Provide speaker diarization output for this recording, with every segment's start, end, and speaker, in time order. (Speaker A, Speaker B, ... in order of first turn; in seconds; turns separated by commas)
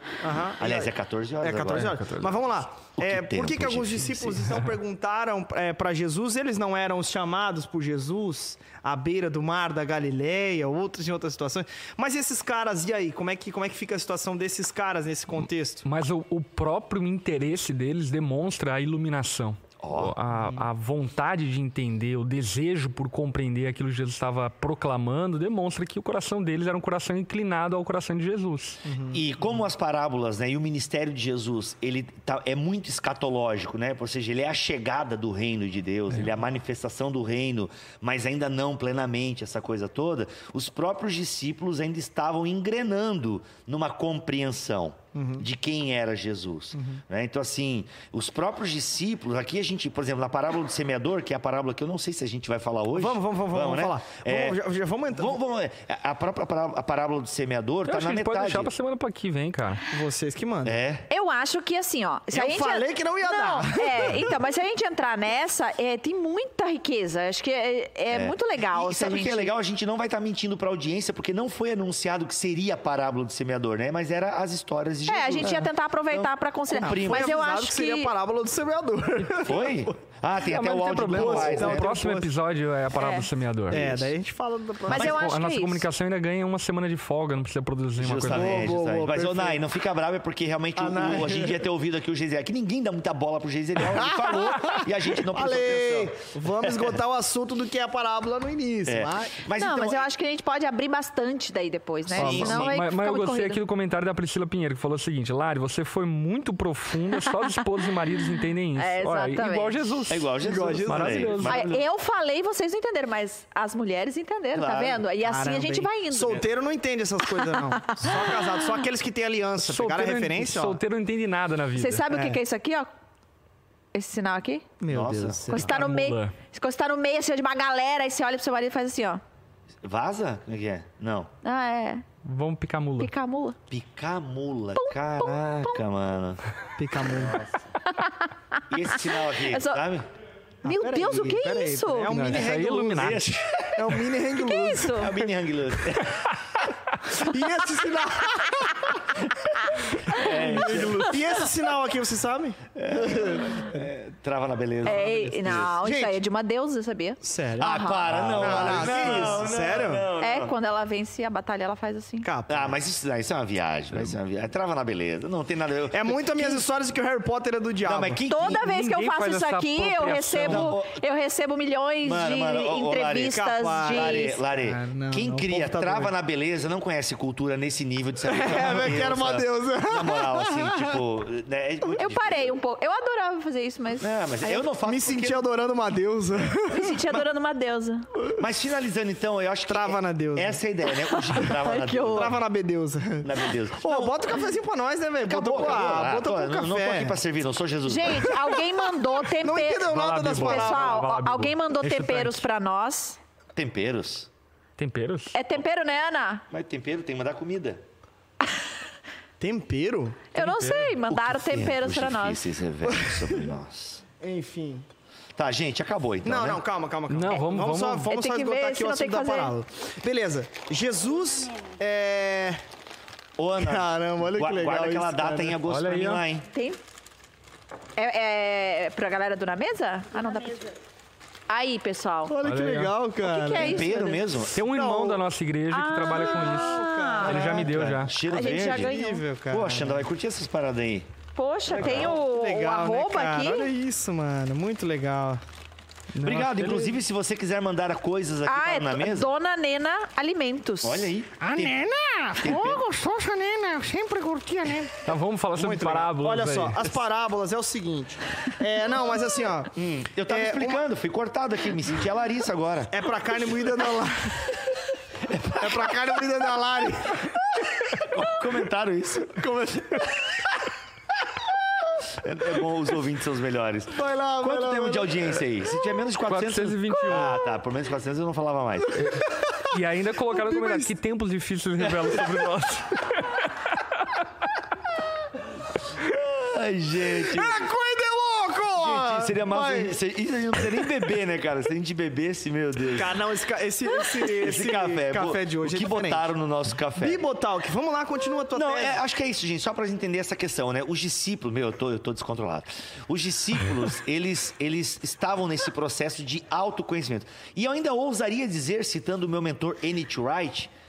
Speaker A: 0.2-15.8, Speaker B: 0.6-1.9, Speaker C: 1.7-2.4, Speaker B: 3.0-4.5, Speaker C: 15.8-28.8, Speaker B: 19.8-20.1, Speaker A: 20.4-20.6, Speaker A: 28.9-29.2, Speaker B: 29.1-54.6, Speaker A: 45.1-45.4, Speaker A: 46.7-47.0, Speaker A: 52.9-55.3, Speaker B: 55.1-58.7, Speaker C: 57.9-59.8, Speaker A: 59.9-60.7, Speaker B: 60.6-61.1, Speaker D: 61.1-69.5, Speaker A: 62.3-64.3, Speaker B: 68.1-77.4, Speaker D: 75.1-78.1, Speaker A: 76.7-79.9, Speaker B: 79.4-81.9, Speaker C: 80.4-84.0, Speaker A: 81.1-82.3, Speaker D: 82.9-83.3, Speaker A: 83.7-85.2, Speaker B: 83.7-84.1, Speaker D: 84.9-85.8, Speaker C: 84.9-88.7, Speaker B: 88.0-96.9, Speaker A: 88.2-89.6, Speaker A: 90.8-91.6, Speaker A: 93.8-99.4, Speaker B: 98.8-100.1, Speaker D: 99.5-103.6, Speaker B: 102.1-102.8, Speaker C: 102.1-111.7, Speaker D: 108.8-109.8, Speaker B: 110.1-111.8, Speaker A: 110.4-111.5, Speaker D: 111.5-116.5, Speaker B: 114.5-115.0, Speaker A: 115.1-120.8, Speaker D: 117.3-118.5, Speaker C: 119.6-122.0, Speaker D: 121.7-122.9, Speaker A: 122.1-122.4, Speaker D: 123.9-124.7, Speaker A: 124.8-125.7, Speaker B: 124.9-125.5, Speaker D: 125.5-129.2, Speaker C: 125.5-126.3, Speaker B: 129.8-131.3, Speaker D: 131.4-132.0, Speaker C: 132.2-133.1, Speaker D: 133.0-133.6, Speaker B: 133.7-136.4, Speaker D: 134.8-135.8, Speaker A: 136.8-137.4, Speaker B: 137.0-137.6, Speaker D: 137.8-139.8, Speaker B: 138.7-140.1, Speaker D: 140.6-142.2, Speaker A: 140.6-143.2, Speaker C: 142.1-143.5, Speaker B: 142.9-143.9, Speaker A: 143.7-145.1, Speaker D: 144.3-145.2, Speaker B: 144.9-146.3, Speaker A: 147.0-149.1, Speaker D: 149.9-150.3, Speaker A: 150.1-153.8, Speaker B: 150.1-151.3, Speaker B: 152.8-155.8, Speaker D: 154.8-158.9, Speaker A: 155.5-156.2, Speaker A: 157.2-160.1, Speaker B: 157.6-160.5, Speaker D: 160.2-162.3, Speaker A: 162.2-162.7, Speaker B: 162.5-166.6, Speaker A: 165.9-168.2, Speaker B: 167.8-168.6, Speaker D: 168.3-174.4, Speaker C: 168.5-170.7, Speaker B: 170.4-171.0, Speaker B: 172.0-182.6, Speaker A: 173.3-176.1, Speaker A: 178.2-180.9, Speaker D: 182.0-184.6, Speaker B: 184.0-185.4, Speaker A: 184.8-187.2, Speaker D: 186.7-188.1, Speaker B: 188.4-192.4, Speaker A: 189.7-190.6, Speaker D: 191.1-192.4, Speaker A: 192.1-197.2, Speaker B: 193.2-194.2, Speaker B: 195.2-198.4, Speaker D: 197.8-203.2, Speaker A: 198.3-201.1, Speaker C: 199.9-202.4, Speaker B: 203.5-204.3, Speaker C: 204.8-205.3, Speaker D: 205.3-206.4, Speaker B: 206.5-207.8, Speaker A: 209.4-210.3, Speaker D: 210.3-212.4, Speaker C: 210.3-211.0, Speaker B: 211.1-214.0, Speaker A: 214.2-214.8, Speaker B: 215.4-216.6, Speaker A: 216.2-222.6, Speaker C: 217.1-218.1, Speaker D: 218.0-219.5, Speaker B: 223.4-226.5, Speaker A: 223.6-225.6, Speaker C: 225.7-226.2, Speaker D: 226.5-226.8, Speaker D: 227.9-230.7, Speaker D: 231.5-232.4, Speaker A: 232.3-233.9, Speaker C: 232.4-232.9, Speaker D: 233.2-234.2, Speaker B: 233.5-234.6, Speaker C: 234.5-238.1, Speaker A: 234.7-235.2, Speaker D: 235.7-237.6, Speaker A: 236.6-237.9, Speaker B: 237.5-238.9, Speaker D: 238.2-239.2, Speaker A: 238.6-240.0, Speaker B: 239.5-241.1, Speaker D: 241.3-243.7, Speaker A: 241.7-245.4, Speaker B: 241.7-242.1, Speaker C: 246.1-247.0, Speaker B: 246.2-249.3, Speaker D: 248.4-251.1, Speaker B: 250.8-252.8, Speaker A: 251.4-259.7, Speaker C: 255.0-257.0, Speaker B: 259.7-262.9, Speaker A: 260.2-260.8, Speaker A: 262.9-264.6, Speaker B: 265.2-266.0, Speaker A: 265.6-268.0, Speaker B: 268.0-269.4, Speaker A: 269.4-270.4, Speaker B: 272.1-279.1, Speaker A: 273.9-275.4, Speaker C: 276.2-277.4, Speaker C: 278.9-283.8, Speaker A: 280.3-280.9, Speaker B: 286.1-287.6, Speaker A: 287.1-289.9, Speaker B: 288.8-293.2, Speaker A: 292.9-296.3, Speaker B: 294.3-297.2, Speaker A: 297.0-299.0, Speaker B: 298.5-310.7